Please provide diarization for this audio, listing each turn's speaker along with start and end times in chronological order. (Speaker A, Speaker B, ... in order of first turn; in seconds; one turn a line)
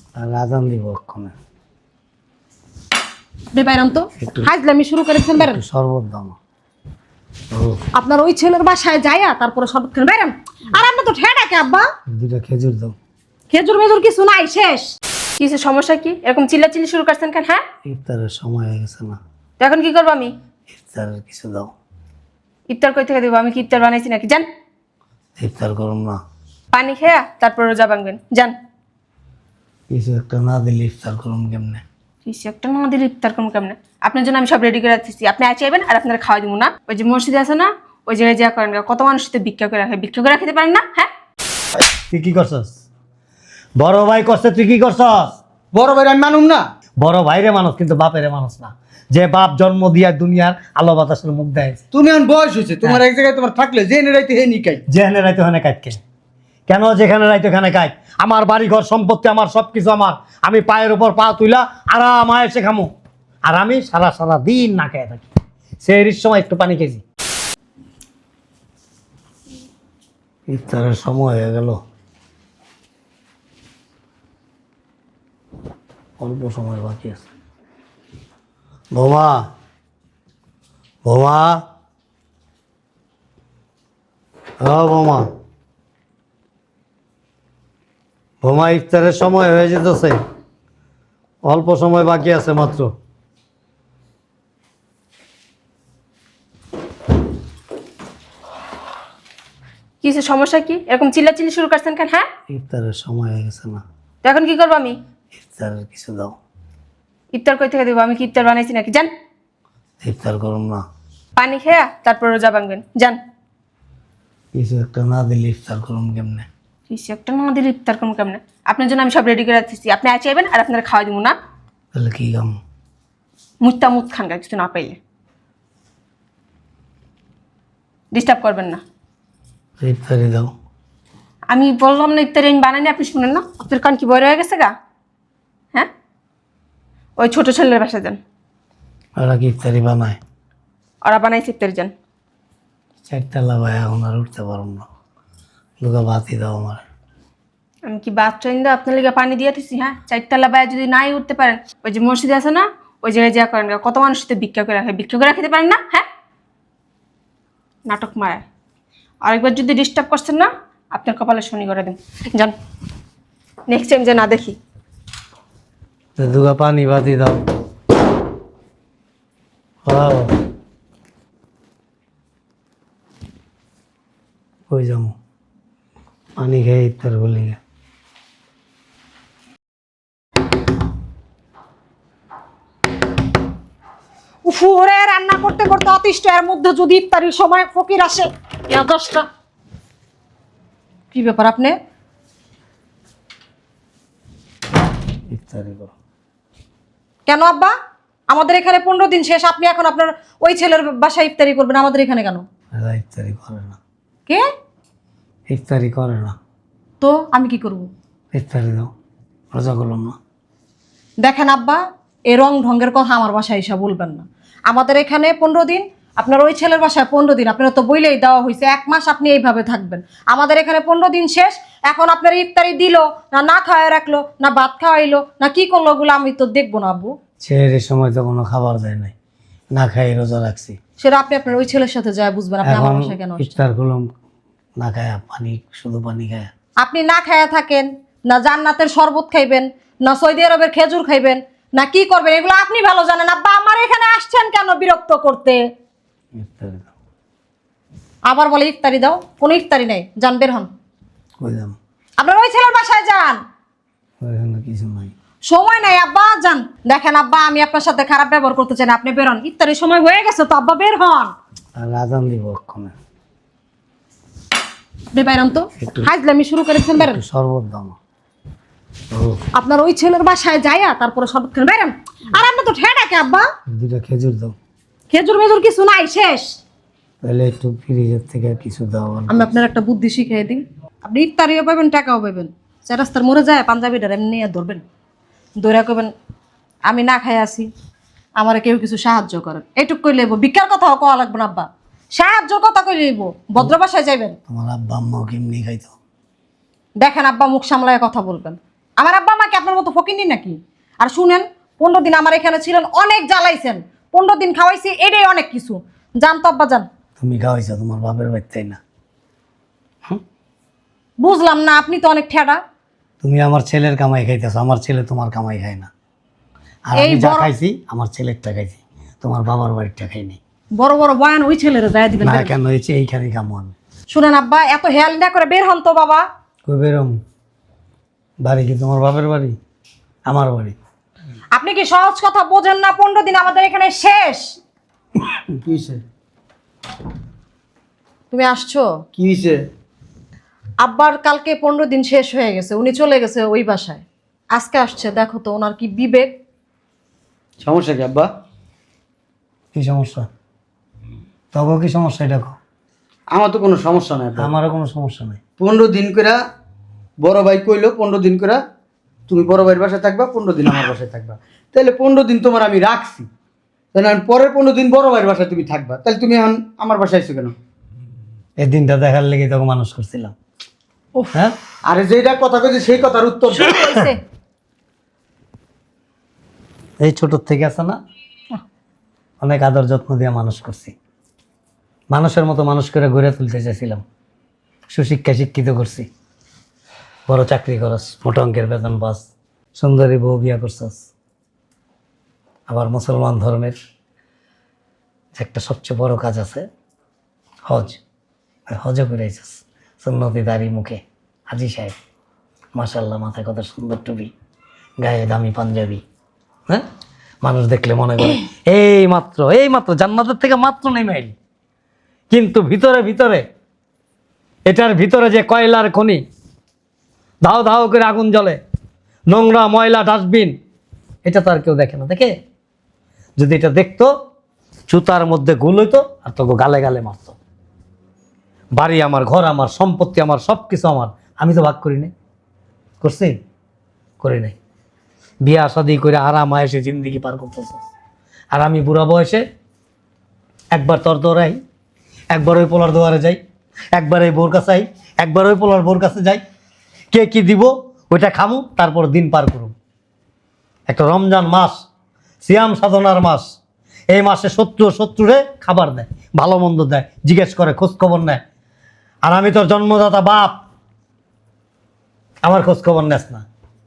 Speaker A: 0.1-1.3
Speaker B: 3.5-5.6
Speaker A: 4.2-4.5
Speaker A: 5.3-6.3
Speaker A: 7.5-7.8
Speaker B: 8.0-11.8
Speaker A: 12.1-12.9
Speaker B: 13.5-14.9
Speaker C: 15.4-17.6
Speaker A: 17.8-19.2
Speaker C: 19.6-20.3
Speaker A: 20.7-21.7
Speaker C: 22.7-24.5
Speaker A: 25.4-26.2
Speaker C: 26.7-28.5
Speaker A: 29.9-31.8
Speaker C: 32.2-41.1
Speaker A: 42.1-42.7
Speaker A: 43.8-45.4
Speaker D: 45.7-46.6
Speaker A: 47.0-51.8
Speaker D: 51.9-54.8
Speaker A: 54.9-56.0
Speaker A: 56.7-62.9
Speaker A: 63.5-65.2
Speaker A: 65.8-67.0
Speaker A: 70.5-71.8
Speaker A: 76.2-77.2
Speaker A: 78.9-79.5
Speaker A: 81.0-81.6
Speaker A: 84.6-85.3
Speaker A: 88.4-90.2
Speaker A: 91.4-92.9
Speaker C: 100.0-102.3
Speaker A: 102.5-103.8
Speaker C: 104.2-105.0
Speaker A: 105.3-106.3
Speaker C: 107.3-109.1
Speaker A: 110.0-110.8
Speaker C: 111.4-113.2
Speaker A: 114.5-116.5
Speaker C: 116.9-121.4
Speaker A: 121.9-122.6
Speaker C: 123.6-125.0
Speaker C: 128.1-128.8
Speaker A: 129.8-130.5
Speaker C: 131.5-134.7
Speaker C: 137.2-138.2
Speaker A: 139.2-140.2
Speaker C: 141.0-141.9
Speaker A: 143.1-144.8
Speaker A: 145.8-146.8
Speaker C: 147.8-156.1
Speaker C: 157.9-158.4
Speaker C: 159.2-162.5
Speaker C: 163.7-164.6
Speaker A: 166.2-167.4
Speaker A: 169.8-170.3
Speaker A: 174.7-175.1
Speaker A: 176.4-177.6
Speaker B: 184.4-189.3
Speaker B: 191.1-191.8
Speaker A: 195.3-195.9
Speaker B: 197.2-197.7
Speaker B: 198.3-202.4
Speaker A: 202.7-203.8
Speaker A: 205.5-206.3
Speaker B: 207.0-207.9
Speaker A: 208.3-208.9
Speaker A: 209.5-210.2
Speaker B: 211.2-227.1
Speaker A: 227.4-229.1
Speaker A: 229.7-230.8
Speaker B: 231.0-233.5
Speaker A: 232.6-234.1
Speaker A: 234.8-236.5
Speaker B: 236.8-245.6
Speaker A: 246.3-246.9
Speaker B: 248.2-250.7
Speaker A: 251.4-251.8
Speaker B: 252.2-253.4
Speaker A: 254.2-255.1
Speaker B: 255.4-261.3
Speaker A: 261.8-262.9
Speaker B: 265.1-267.2
Speaker A: 265.8-266.1
Speaker A: 266.9-267.9
Speaker A: 269.1-269.4
Speaker B: 269.6-273.4
Speaker A: 273.7-274.5
Speaker B: 275.1-276.6
Speaker A: 277.2-279.5
Speaker B: 279.3-284.8
Speaker B: 285.6-286.1
Speaker B: 286.9-287.7
Speaker B: 288.4-294.4
Speaker A: 294.5-295.9
Speaker B: 297.0-306.9
Speaker A: 307.2-308.8
Speaker B: 311.2-312.6
Speaker A: 313.2-315.9
Speaker A: 316.9-320.4
Speaker B: 316.9-317.5
Speaker B: 320.8-322.5
Speaker A: 322.2-323.7
Speaker B: 324.1-326.2
Speaker A: 326.6-327.2
Speaker A: 328.4-329.6
Speaker A: 330.3-330.8
Speaker B: 331.5-334.6
Speaker D: 335.6-336.0
Speaker B: 338.3-338.9
Speaker D: 339.1-339.6
Speaker B: 340.8-346.3
Speaker D: 347.6-348.3
Speaker A: 349.7-350.3
Speaker A: 351.5-352.6
Speaker D: 353.3-354.5
Speaker A: 354.4-355.4
Speaker D: 355.6-356.4
Speaker D: 357.2-358.6
Speaker D: 359.3-363.3
Speaker D: 363.9-367.5
Speaker A: 368.6-370.3
Speaker D: 371.9-373.8
Speaker B: 373.6-374.2
Speaker A: 377.0-378.0
Speaker A: 379.4-380.9
Speaker A: 382.1-384.0
Speaker A: 384.9-386.1
Speaker A: 387.3-391.0
Speaker A: 392.7-393.8
Speaker A: 395.3-396.7
Speaker A: 397.6-398.0
Speaker A: 398.7-401.9
Speaker A: 402.8-404.3
Speaker A: 405.0-406.0
Speaker A: 407.4-411.3
Speaker A: 412.3-413.4
Speaker A: 414.6-416.2
Speaker A: 417.4-418.6
Speaker A: 419.3-420.5
Speaker A: 421.2-422.3
Speaker A: 423.4-424.1
Speaker A: 424.9-427.4
Speaker A: 428.8-432.1
Speaker A: 433.0-433.4
Speaker A: 434.2-434.6
Speaker A: 435.4-437.8
Speaker A: 438.5-439.4
Speaker A: 440.7-441.6
Speaker A: 442.3-443.4
Speaker A: 443.9-446.4
Speaker A: 447.1-449.7
Speaker A: 450.9-451.8
Speaker A: 452.4-453.5
Speaker A: 454.1-458.4
Speaker A: 459.2-460.6
Speaker A: 462.4-463.4